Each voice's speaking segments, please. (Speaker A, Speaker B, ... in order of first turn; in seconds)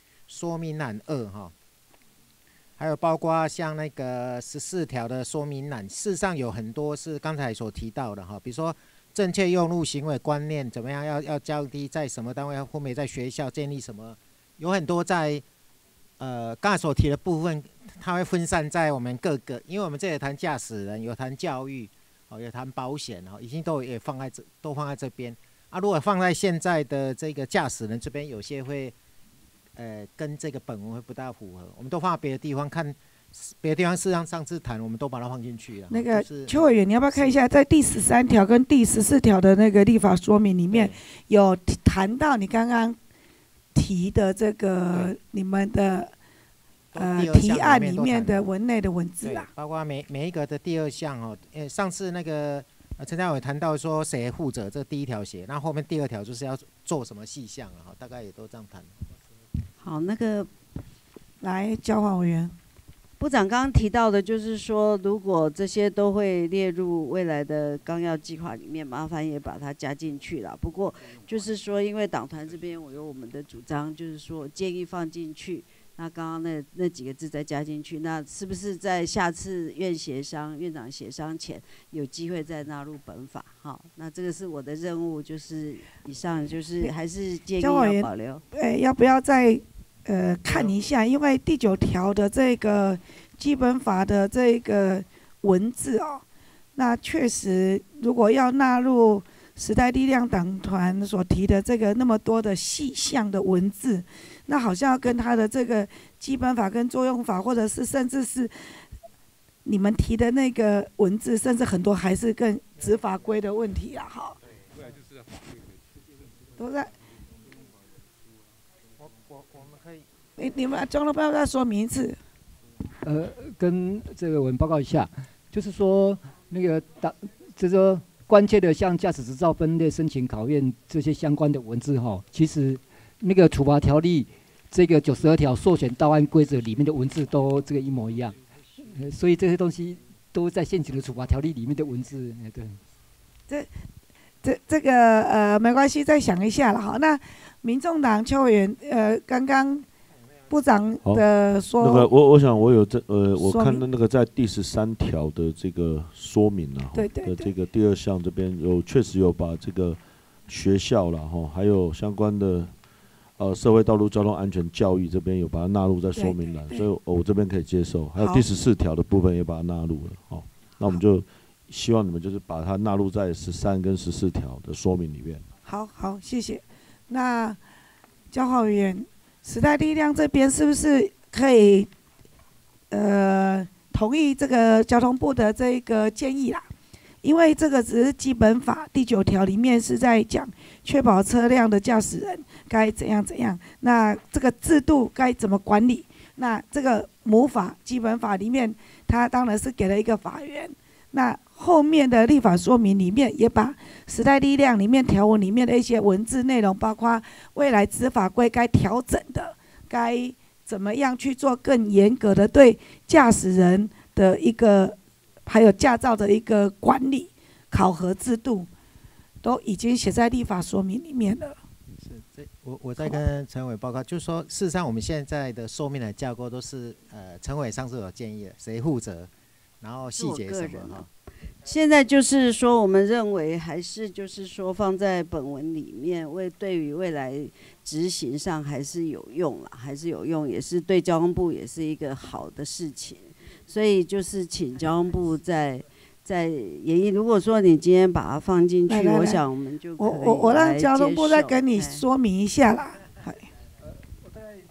Speaker A: 0.3-1.5, 2.8-15.4, 16.2-28.9, 29.8-36.7, 46.9-48.5, 49.2-58.9, 119.0-120.0, 222.0-229.3, 229.8-231.1
Speaker B: 35.9-43.0, 43.8-46.1, 47.0-49.5, 61.4-62.5, 87.6-96.2, 96.8-108.5, 109.7-114.4, 116.6-116.9, 120.4-122.2, 144.4-149.9, 150.5-152.1, 153.4-153.8, 156.9-157.5, 166.2-166.8, 168.2-168.4, 175.7-177.6, 178.3-181.9, 182.9-186.7, 187.2-218.7, 219.4-221.6, 248.9-249.4, 250.0-253.4
Speaker C: 59.8-60.5, 63.2-88.4, 230.1-231.1, 231.6-252.0
Speaker D: 123.0-142.8
Speaker E: 151.8-162.7, 163.4-175.4